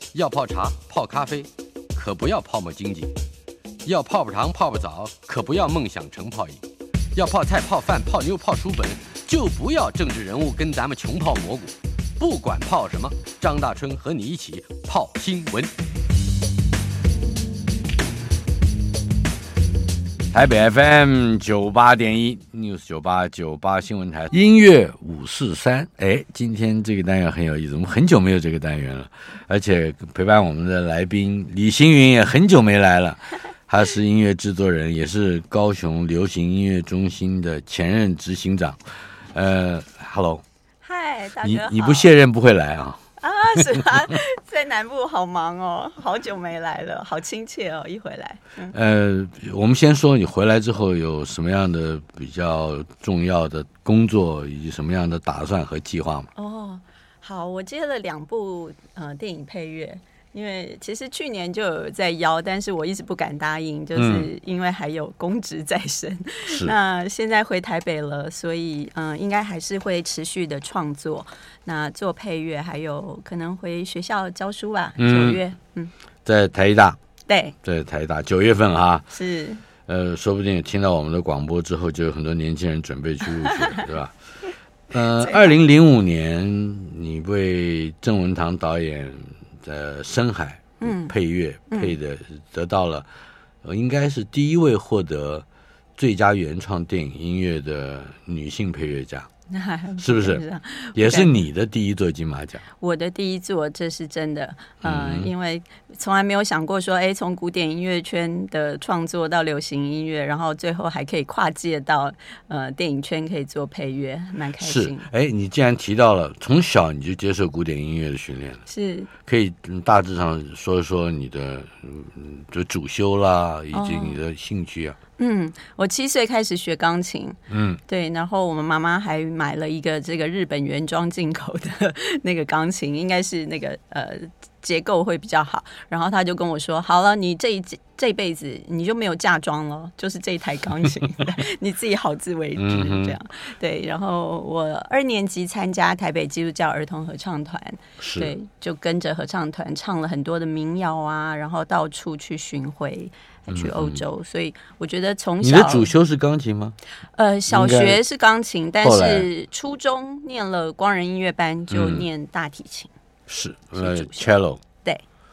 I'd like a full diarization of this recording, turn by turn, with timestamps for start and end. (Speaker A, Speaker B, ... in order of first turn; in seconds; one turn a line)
Speaker A: 0.1-1.4
Speaker B: 0.1-3.1
Speaker A: 2.0-3.0
Speaker B: 3.9-6.6
Speaker A: 3.9-6.6
Speaker B: 7.2-15.7
Speaker A: 7.2-10.2
Speaker A: 12.2-15.6
Speaker A: 20.3-38.8
Speaker A: 39.3-40.4
Speaker C: 40.8-42.1
Speaker A: 41.4-43.0
Speaker C: 43.2-48.7
Speaker A: 43.5-44.1
Speaker A: 48.7-56.3
Speaker C: 56.4-75.9
Speaker A: 64.0-64.3
Speaker A: 66.5-66.8
Speaker A: 75.0-75.4
Speaker A: 76.2-77.0
Speaker C: 77.3-77.5
Speaker A: 77.6-79.1
Speaker C: 79.1-79.6
Speaker A: 79.9-84.1
Speaker A: 84.9-93.1
Speaker C: 85.2-85.5
Speaker C: 90.8-91.1
Speaker A: 93.6-95.5
Speaker A: 96.0-99.3
Speaker C: 99.5-101.3
Speaker A: 100.0-100.4
Speaker A: 101.0-102.6
Speaker C: 102.8-115.1
Speaker A: 104.8-105.3
Speaker A: 114.6-118.6
Speaker C: 118.7-119.1
Speaker A: 119.3-125.0
Speaker C: 123.7-124.2
Speaker C: 125.2-155.9
Speaker A: 127.5-127.8
Speaker A: 142.6-143.2
Speaker A: 148.0-148.3
Speaker A: 153.5-154.0
Speaker A: 155.4-156.8
Speaker C: 157.2-162.9
Speaker A: 157.5-158.0
Speaker A: 158.8-159.3
Speaker A: 161.7-162.1
Speaker A: 163.3-164.6
Speaker C: 163.8-164.3